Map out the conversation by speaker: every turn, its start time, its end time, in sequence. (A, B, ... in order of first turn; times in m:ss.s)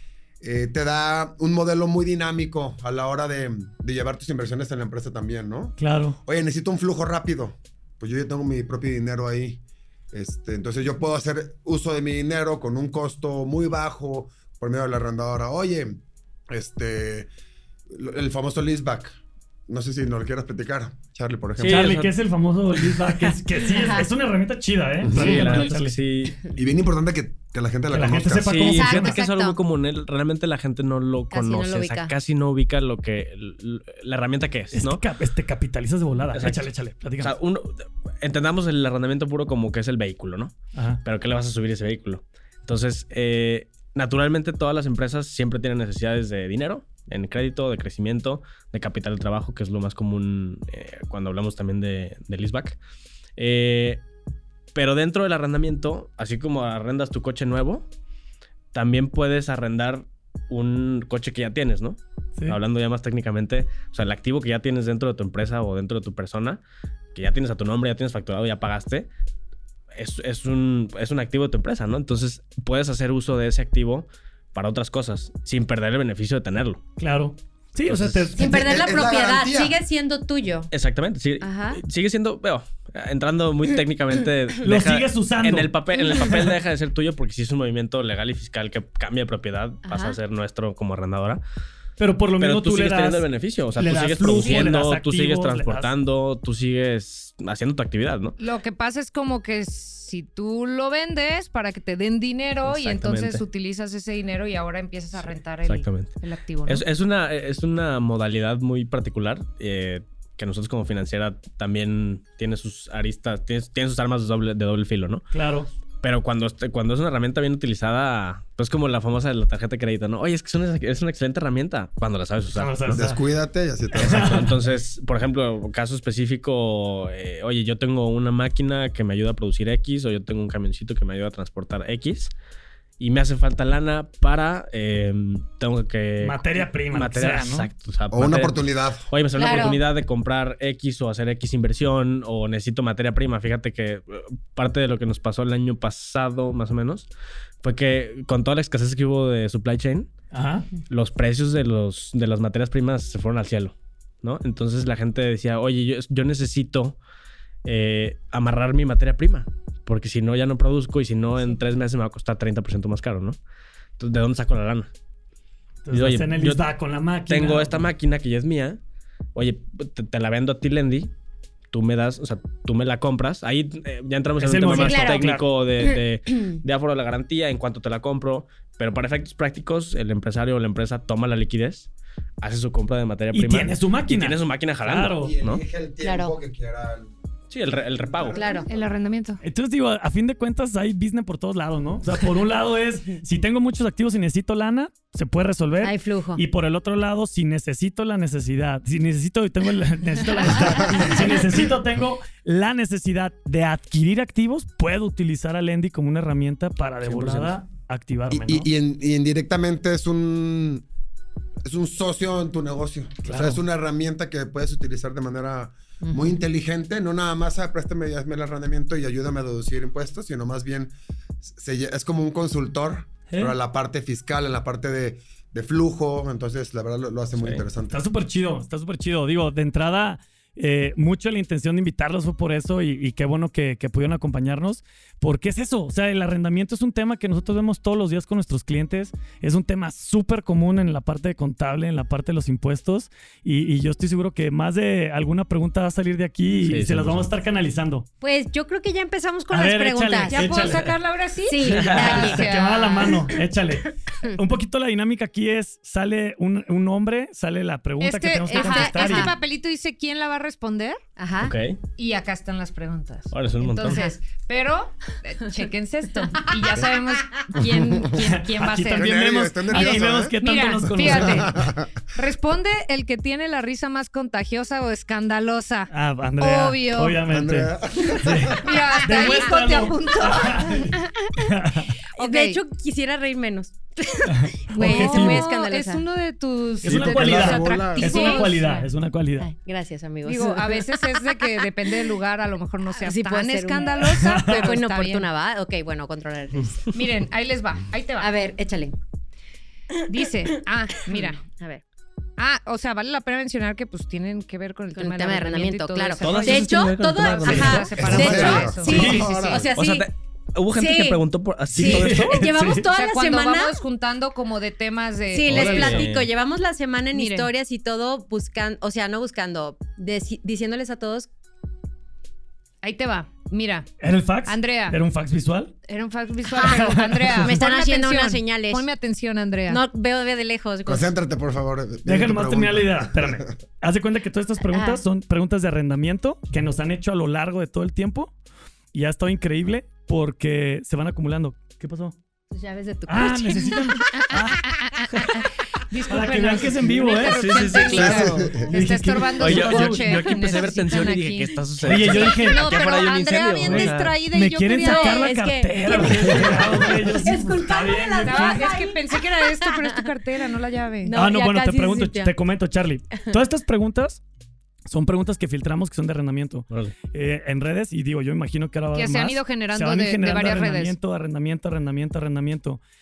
0:00.4-0:09.6 A
0:05.8-0:06.2 B
0:10.1-0:16.0 A
0:16.5-0:17.3 A
0:17.9-0:19.2 A
0:19.7-0:21.9 A
0:21.6-0:22.2 C
0:21.6-0:26.0 B
0:23.6-0:24.1 D
0:25.0-0:25.7 A
0:25.1-0:26.4 C
0:26.6-0:28.8 A
0:27.9-0:29.2 B
0:28.4-0:35.0 C
0:28.7-0:29.6 D
0:31.3-0:32.1 D
0:34.7-0:37.4 B
0:36.3-0:36.7 C
0:37.2-0:52.8 C
0:40.8-0:41.0 B
0:53.4-0:54.0 C
0:54.8-0:57.9 C
0:58.7-1:06.6 C
1:07.2-1:09.1 C
1:10.0-1:16.8 C
1:17.0-1:18.5 B
1:17.9-1:18.3 C
1:18.4-1:20.7 D
1:18.4-1:19.8 A
1:20.7-1:31.4 C
1:21.4-1:21.8 D
1:24.6-1:25.7 B
1:29.9-1:30.2 D
1:32.0-1:35.9 B
1:32.4-1:38.4 C
1:38.4-1:46.8 E
1:42.6-1:43.4 C
1:45.7-1:55.3 C
1:55.3-1:55.7 B
1:56.0-2:02.8 C
2:02.6-2:03.2 B
2:02.9-2:04.6 A
2:04.0-2:04.5 B
2:04.1-2:12.3 C
2:13.0-2:27.1 C
2:16.2-2:17.7 B
2:18.1-2:19.1 A
2:19.4-2:19.8 D
2:27.6-2:30.1 C
2:30.3-2:30.7 B
2:30.9-2:37.0 C
2:37.6-2:43.4 C
2:44.0-2:44.9 C
2:45.8-2:47.9 B
2:45.9-2:46.7 C
2:47.3-2:48.8 C
2:49.4-2:51.1 C
2:51.7-3:01.9 C
2:54.4-2:55.4 B
2:54.7-2:56.6 D
3:02.4-3:05.6 C
3:03.3-3:05.3 B
3:05.1-3:07.1 A
3:06.0-3:06.3 D
3:07.5-3:08.4 C
3:07.9-3:08.6 A
3:08.3-3:08.7 D
3:08.7-3:09.4 E
3:09.4-3:28.7 B
3:15.8-3:16.4 D
3:27.0-3:27.5 C
3:28.3-3:30.9 A
3:31.6-3:48.0 A
3:33.2-3:33.6 B
3:43.3-3:43.6 B
3:47.4-3:47.6 C
3:47.9-4:08.1 B
4:06.6-4:07.3 C
4:08.2-4:10.6 D
4:09.5-4:10.9 B
4:10.3-4:13.2 E
4:11.5-4:12.5 D
4:11.6-4:12.4 C
4:11.7-4:19.4 B
4:18.0-4:21.0 E
4:18.5-4:19.4 D
4:21.2-4:21.5 D
4:21.4-4:21.8 C
4:22.0-4:29.2 E
4:23.3-4:24.0 C
4:23.8-4:24.1 D
4:27.6-4:28.1 A
4:28.2-4:31.5 B
4:28.9-4:30.4 A
4:29.7-4:31.6 E
4:30.9-4:31.9 A
4:32.1-4:37.2 E
4:35.9-4:41.9 B
4:37.2-4:38.8 A
4:38.6-4:41.3 E
4:39.1-4:39.8 D
4:42.2-4:42.6 E
4:42.2-4:46.0 D
4:44.3-4:45.5 B
4:44.8-4:48.8 E
4:46.8-4:48.1 A
4:46.8-4:49.5 B
4:48.0-4:48.8 D
4:49.4-4:52.1 D
4:50.2-4:55.3 E
4:52.9-4:56.9 D
4:54.1-4:54.7 B
4:56.9-4:58.3 E
4:58.2-4:59.0 D
5:00.1-5:01.4 E
5:00.4-5:01.8 D
5:02.4-5:09.6 E
5:05.0-5:10.1 D
5:06.2-5:08.5 C
5:08.0-5:09.7 A
5:08.1-5:09.3 B
5:09.7-5:12.6 C
5:10.7-5:11.2 D
5:11.7-5:12.9 B
5:11.7-5:13.8 D
5:12.8-5:16.0 E
5:15.3-5:21.3 D
5:15.5-5:16.3 C
5:15.5-5:16.0 B
5:17.1-5:17.5 E
5:22.8-5:23.9 E
5:24.0-5:25.7 B
5:24.5-5:25.0 E
5:25.9-5:29.8 E
5:26.5-5:28.9 D
5:26.6-5:27.6 B
5:29.7-5:31.1 D
5:30.8-5:33.5 A
5:32.0-5:38.3 B
5:34.7-5:35.0 D
5:38.9-5:42.2 B
5:42.5-5:44.0 D
5:43.1-5:45.2 B
5:45.9-5:55.3 E
5:46.1-5:50.3 B
5:47.2-5:48.4 C
5:47.9-5:48.7 A
5:49.4-5:54.2 C
5:51.8-5:52.7 B
5:53.6-5:58.7 B
5:54.8-6:00.0 D
5:58.2-6:01.1 E
6:01.0-6:02.3 D
6:01.1-6:04.2 B
6:04.9-6:12.8 B
6:08.9-6:11.0 E